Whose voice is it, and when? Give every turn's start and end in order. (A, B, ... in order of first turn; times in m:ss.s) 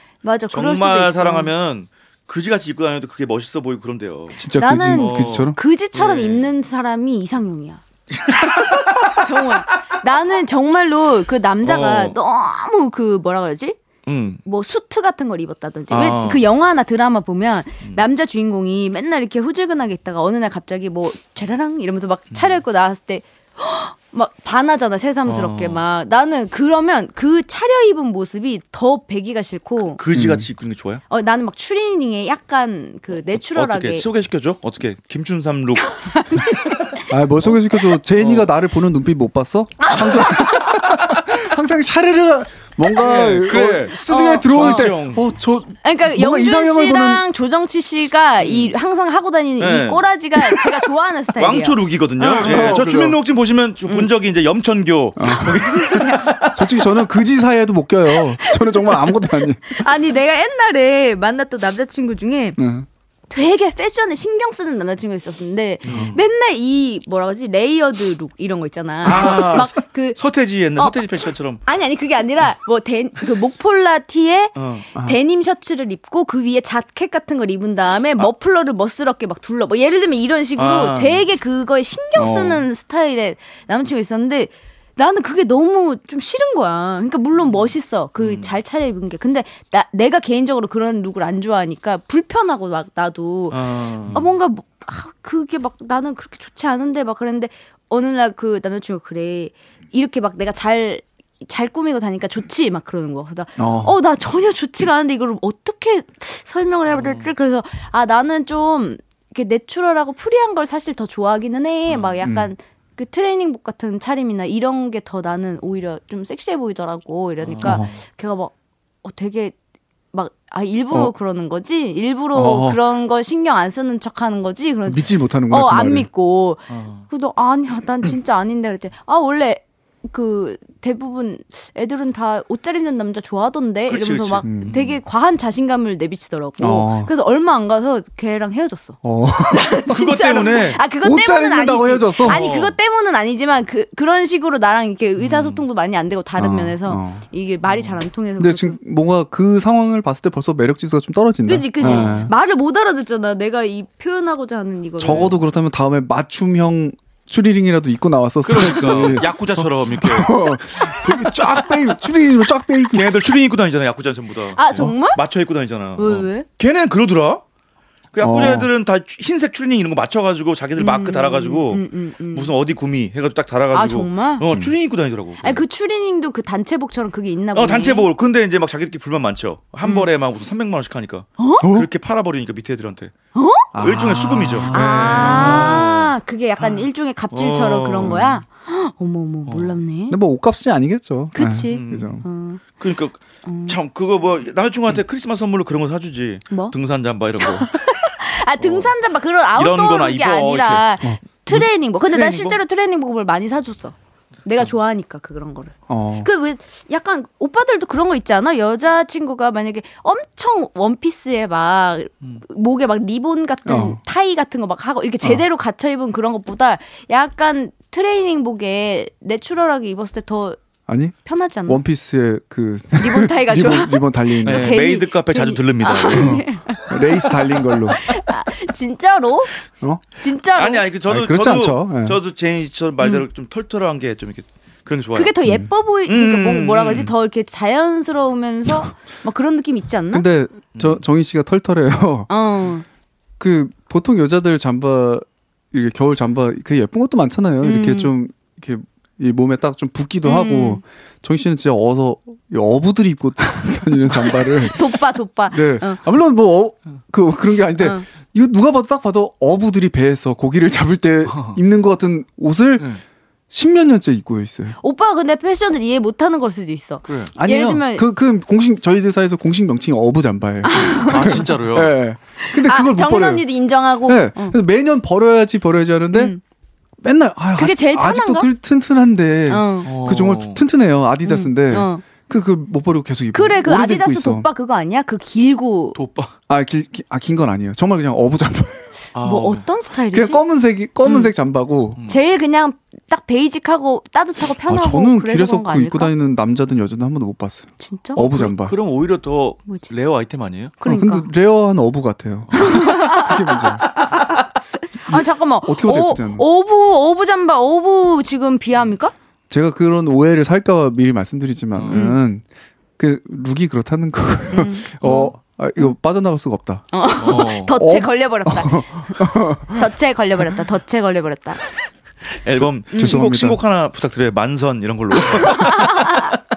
0:00.2-0:01.5 A
0:00.5-0:06.5 B
0:04.4-0:05.6 C
0:04.5-0:07.8 A
0:08.1-0:09.2 B
0:09.1-0:13.8 A
0:11.6-0:12.2 B
0:14.0-0:14.4 B
0:14.4-0:30.0 A
0:15.9-0:16.4 B
0:25.2-0:25.8 B
0:30.0-0:31.0 B
0:30.1-0:30.5 C
0:31.1-0:34.0 A
0:33.4-0:36.5 B
0:35.9-0:37.0 A
0:37.1-0:47.2 C
0:38.2-0:38.5 B
0:39.8-0:40.7 A
0:43.0-0:45.2 B
0:44.0-0:44.9 A
0:45.8-0:52.8 A
0:48.4-0:48.7 B
0:49.6-0:50.6 B
0:51.4-0:56.8 B
0:52.2-0:53.2 C
0:55.2-0:55.6 C
0:55.3-0:56.3 A
0:56.5-0:59.8 C
0:58.4-1:02.6 A
1:02.6-1:02.9 C
1:03.3-1:10.2 A
1:05.8-1:06.2 B
1:09.0-1:11.6 B
1:11.6-1:58.5 A
1:14.6-1:14.8 B
1:20.6-1:21.2 B
1:22.2-1:22.6 B
1:28.2-1:28.5 B
1:33.5-1:34.2 B
1:43.6-1:43.9 C
1:46.9-1:47.3 B
1:51.9-1:52.2 B
1:52.2-1:52.5 C
1:57.4-1:57.8 B
1:57.6-1:57.9 C
1:59.0-1:59.5 A
2:00.1-2:28.8 A
2:02.3-2:02.8 C
2:04.9-2:06.1 C
2:06.7-2:07.0 B
2:13.9-2:15.0 B
2:14.4-2:14.7 C
2:16.6-2:17.1 C
2:19.0-2:19.8 C
2:19.8-2:20.8 B
2:21.0-2:22.4 C
2:22.2-2:22.8 B
2:25.2-2:25.6 B
2:26.4-2:27.2 C
2:28.4-2:32.3 C
2:31.4-2:35.3 A
2:31.8-2:32.3 B
2:35.0-2:43.1 C
2:38.4-2:42.1 B
2:42.9-2:47.4 B
2:44.5-2:45.2 A
2:46.0-2:46.4 A
2:48.1-2:55.6 B
2:48.2-2:48.7 C
2:50.8-2:52.5 A
2:53.7-2:54.4 A
2:55.4-2:58.1 A
2:57.5-3:03.1 B
3:01.4-3:01.6 A
3:01.6-3:01.9 C
3:03.3-3:03.7 A
3:03.7-3:05.9 C
3:03.8-3:08.4 B
3:04.7-3:10.2 A
3:09.5-3:09.7 B
3:10.1-3:12.2 C
3:11.3-3:12.6 A
3:11.7-3:12.2 B
3:12.8-3:17.8 B
3:13.4-3:13.8 A
3:17.4-3:40.6 A
3:18.6-3:18.9 B
3:19.5-3:20.8 B
3:21.0-3:21.6 C
3:22.0-3:22.6 B
3:25.9-3:26.3 C
3:33.6-3:34.0 C
3:40.9-3:41.2 C
3:41.2-3:41.8 A
3:41.7-3:44.8 C
3:42.9-3:49.5 A
3:44.4-3:46.4 B
3:46.1-3:48.0 C
3:50.2-3:50.8 A
3:50.6-3:55.4 B
3:51.1-3:52.2 C
3:53.0-3:53.2 A
3:55.1-4:00.2 A
3:56.1-3:57.1 B
4:00.1-4:02.3 C
4:00.7-4:01.0 B
4:02.3-4:02.8 A
4:03.4-4:15.0 C
4:07.6-4:08.1 A
4:10.2-4:10.8 A
4:14.4-4:16.0 A
4:15.5-4:22.9 C
4:17.8-4:18.0 A
4:21.3-4:21.6 B
4:23.5-4:24.8 C
4:24.8-4:28.0 A
4:27.0-4:27.3 B
4:27.3-4:33.4 C
4:30.6-4:31.4 A
4:31.1-4:31.9 B
4:32.4-4:34.6 A
4:34.0-4:36.3 C
4:36.1-4:36.4 A
4:37.0-4:44.5 C
4:37.6-4:38.5 A
4:39.5-4:39.9 A
4:39.8-4:40.6 B
4:41.2-4:42.0 A
4:43.3-4:46.0 A
4:45.9-4:46.3 B
4:46.5-4:49.0 C
4:49.1-4:49.6 B
4:49.2-4:50.4 A
4:50.1-4:52.0 C
4:51.0-4:51.3 A
4:52.1-4:56.1 A
4:54.7-4:58.7 C
4:57.8-4:58.2 A
4:58.2-5:00.7 B
5:00.8-5:01.3 A
5:00.8-5:03.9 C
5:02.5-5:02.8 B
5:02.6-5:09.1 A
5:05.0-5:06.4 C
5:09.5-5:12.4 C
5:11.8-5:12.0 B
5:11.9-5:12.2 A
5:13.0-5:16.9 C
5:14.5-5:15.4 A
5:16.9-5:21.6 A
5:17.2-5:17.7 B
5:17.7-5:19.9 C
5:22.4-5:26.3 B
5:22.6-5:23.6 C
5:22.9-5:23.2 A
5:25.4-5:26.4 A